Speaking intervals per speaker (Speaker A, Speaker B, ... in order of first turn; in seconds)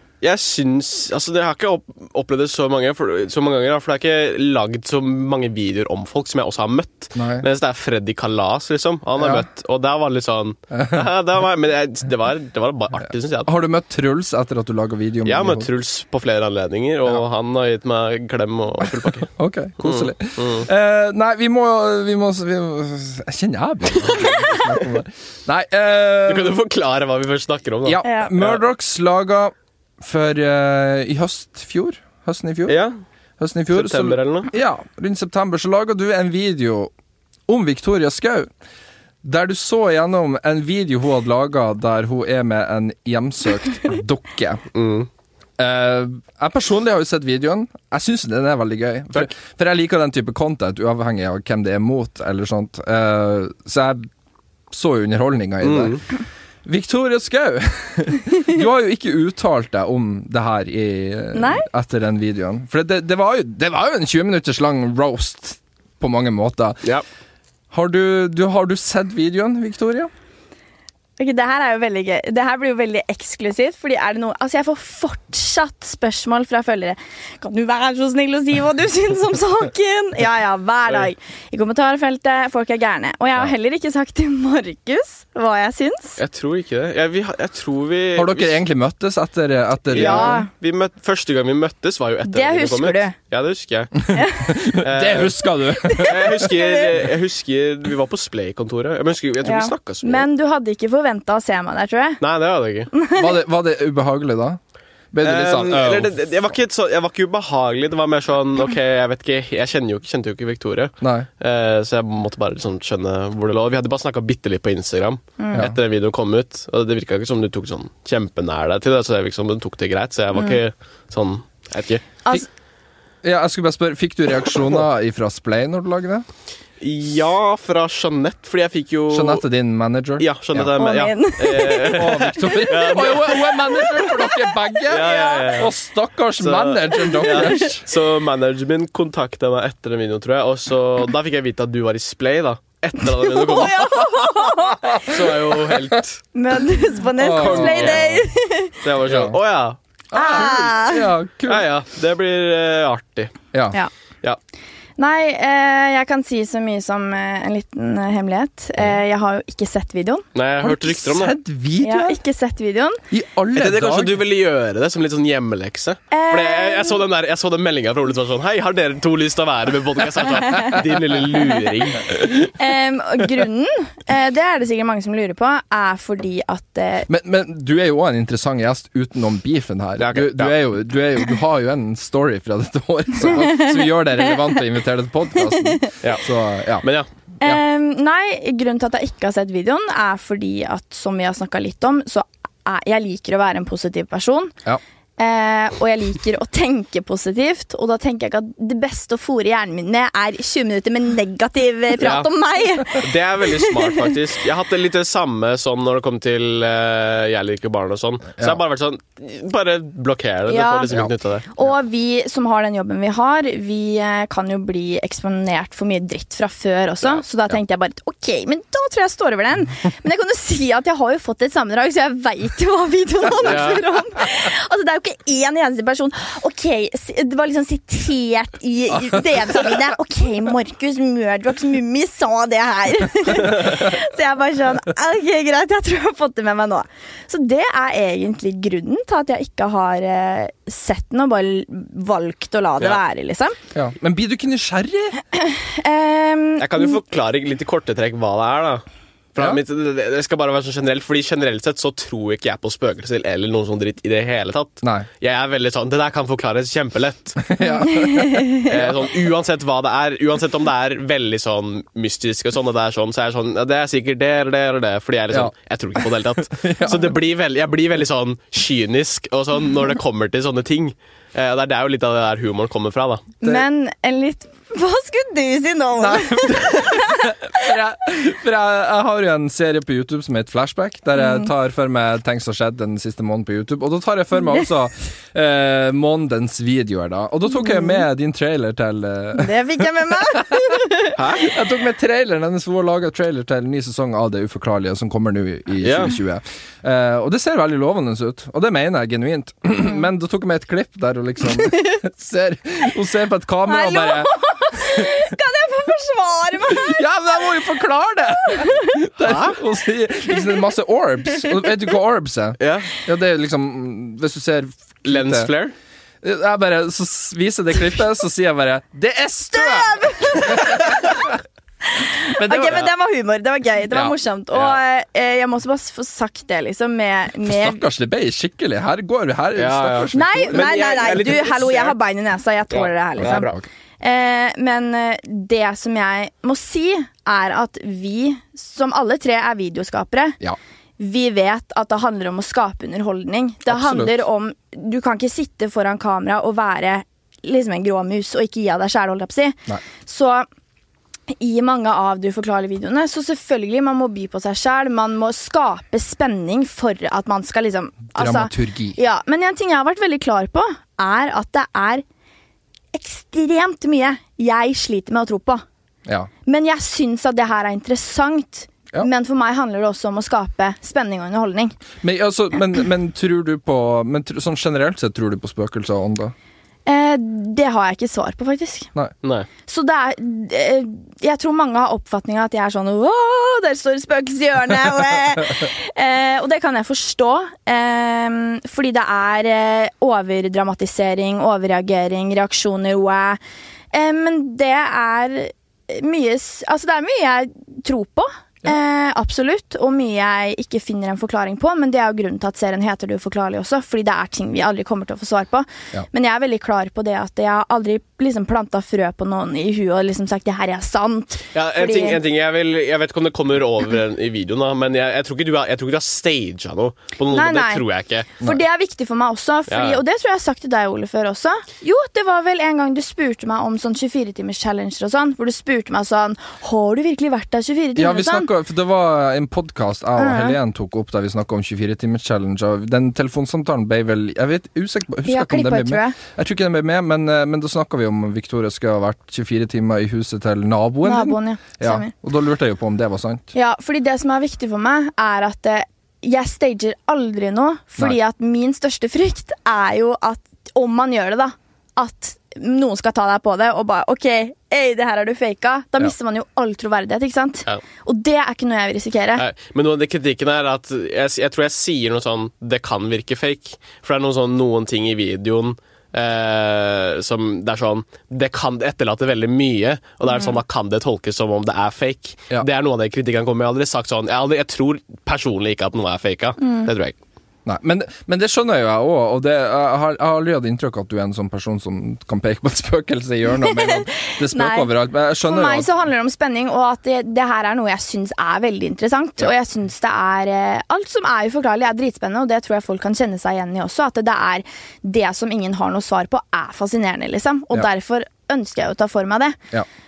Speaker A: 0.2-13.5, 15.2-20.7, 24.5-24.8, 26.3-28.6, 32.7-33.0, 33.7-34.5, 44.7-45.1, 55.6-56.0, 86.2-88.6, 89.9-94.1, 94.8-95.3, 96.0-100.2, 102.2-102.9, 105.2-122.1, 126.8-129.4, 130.2-133.8, 134.9-135.7, 136.4-144.2, 145.0-146.2, 147.4-148.3, 148.8-149.8, 151.4-153.3, 160.3-161.3, 163.5-172.5, 180.0-180.6, 202.0-202.3, 202.8-211.5, 223.4-223.8, 246.6-248.8, 249.3-257.5, 258.6-273.3, 291.1-291.5, 295.8-296.1, 309.2-309.6, 312.6-312.9, 315.0-315.7, 329.6-331.9, 332.7-333.6, 379.2-379.5, 411.5-418.4, 419.7-420.0, 459.4-477.1
Speaker B: 7.1-7.5, 9.2-9.4, 10.7-11.1, 13.4-15.7, 19.3-26.6, 27.8-32.8, 33.4-36.9, 37.5-38.5, 39.2-44.6, 45.6-54.1, 54.7-56.0, 56.6-66.8, 67.7-70.1, 88.1-90.4, 94.1-96.5, 103.1-104.6, 105.1-106.2, 111.0-111.3, 123.2-126.2, 129.1-130.7, 131.9-137.8, 144.8-146.0, 147.2-148.1, 149.1-149.4, 150.1-151.6, 160.6-162.2, 163.1-164.2, 177.1-186.8, 243.7-245.2, 257.4-258.9, 265.3-267.1, 276.0-305.2, 306.7-315.5, 316.2-321.4, 322.3-322.9, 327.4-331.1, 333.2-333.6, 343.7-344.1, 358.1-359.0, 372.0-376.3, 427.9-443.5, 477.6-485.9
Speaker C: 28.0-28.3, 61.3-61.7, 71.2-86.2, 89.9-90.5, 92.2-93.1, 94.1-94.6, 95.8-96.8, 99.4-102.2, 102.9-103.3, 115.4-115.7, 120.3-120.6, 130.8-133.0, 133.8-135.5, 137.2-137.7, 143.2-145.1, 146.3-148.8, 150.1-151.1, 155.0-160.2, 161.8-163.0, 166.1-167.0, 172.1-177.1, 183.3-183.8, 185.6-185.8, 187.4-194.5, 195.2-204.1, 210.5-210.9, 211.5-243.6, 245.3-247.0, 257.6-258.7, 273.4-277.4, 281.1-281.5, 287.6-288.0, 289.3-291.1, 303.6-307.0, 308.6-308.9, 319.5-321.2, 321.9-327.8, 330.1-340.4, 341.0-350.4, 351.3-362.0, 362.9-365.6, 366.4-371.7, 376.9-378.9, 379.6-393.4, 393.9-412.2, 417.3-417.8, 418.4-428.5, 430.2-430.6, 435.2-436.2, 441.0-442.1, 443.5-459.4, 476.6-476.9, 483.6-484.9, 485.4-499.6